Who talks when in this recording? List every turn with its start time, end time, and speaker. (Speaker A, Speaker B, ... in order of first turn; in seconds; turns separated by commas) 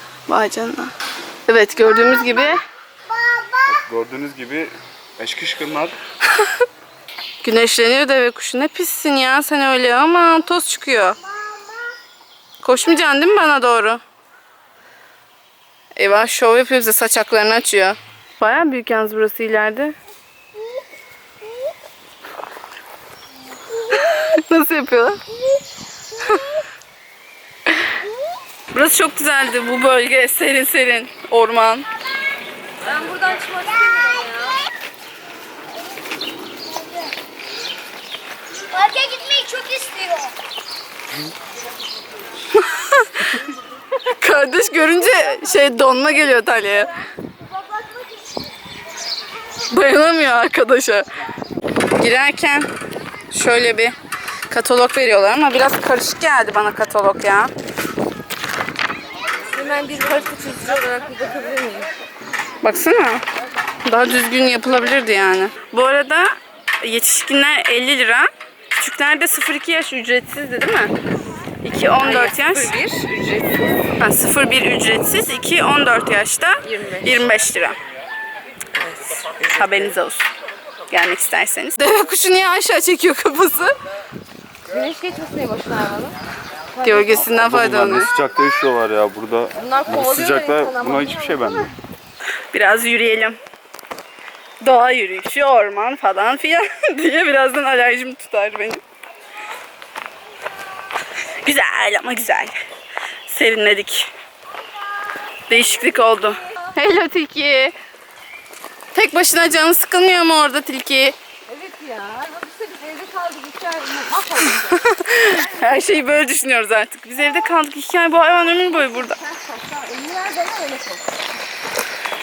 Speaker A: 0.3-0.9, Speaker A: 1.5-2.6, Speaker B: 3.6-6.0, Speaker A: 7.4-11.2, Speaker A: 12.6-14.0, Speaker A: 16.0-20.0, Speaker A: 23.9-25.2, Speaker A: 28.7-31.9, Speaker C: 32.8-34.6, Speaker C: 38.7-40.3, Speaker A: 42.5-43.4, Speaker A: 44.2-46.9, Speaker C: 47.8-48.0, Speaker A: 49.7-51.1, Speaker A: 51.9-52.7, Speaker A: 53.3-54.0, Speaker A: 54.5-57.5, Speaker C: 59.5-61.9, Speaker A: 62.6-63.2, Speaker A: 63.9-70.9, Speaker A: 71.6-72.7, Speaker C: 72.0-73.9, Speaker A: 74.0-77.8, Speaker C: 76.6-77.3, Speaker C: 78.8-79.3, Speaker A: 79.4-80.3, Speaker A: 80.9-83.7, Speaker C: 84.7-86.2, Speaker C: 86.7-87.3, Speaker A: 86.8-88.1, Speaker B: 87.2-91.7, Speaker C: 89.6-91.8, Speaker A: 92.5-93.4, Speaker A: 94.6-98.8, Speaker A: 101.4-102.6, Speaker A: 103.3-104.1, Speaker A: 105.5-107.8, Speaker A: 108.9-111.2, Speaker C: 111.5-114.8, Speaker A: 114.7-119.2, Speaker C: 118.7-121.0